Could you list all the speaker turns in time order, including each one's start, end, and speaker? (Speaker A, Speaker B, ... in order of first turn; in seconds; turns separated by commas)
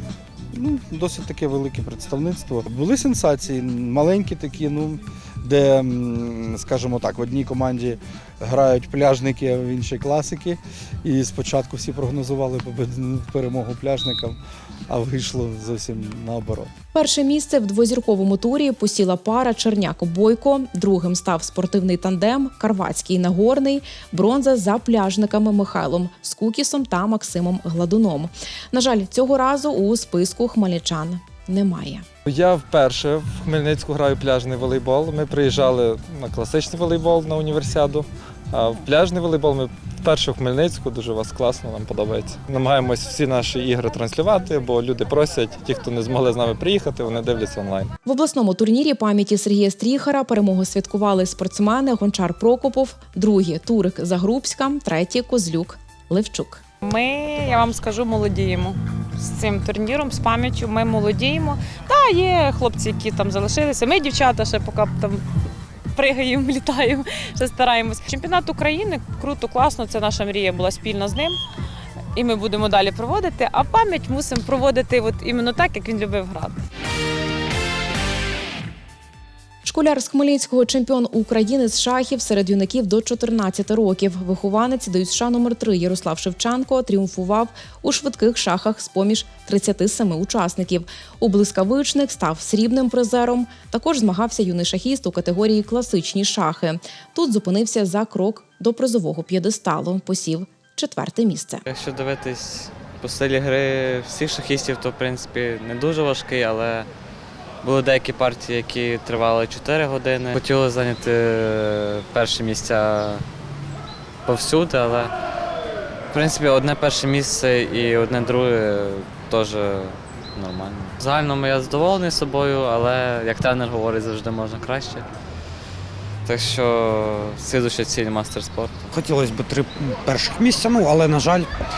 Speaker A: 0.5-14.4, Speaker A: 14.9-16.7, Speaker B: 16.9-32.0, Speaker C: 32.2-47.9, Speaker B: 48.0-56.6, Speaker D: 56.8-65.2, Speaker D: 65.9-71.4, Speaker D: 72.1-76.6, Speaker B: 79.6-101.6, Speaker E: 101.7-106.9, Speaker E: 107.6-113.2, Speaker E: 114.2-115.1, Speaker E: 116.1-125.1, Speaker E: 126.2-128.9, Speaker F: 128.9-131.5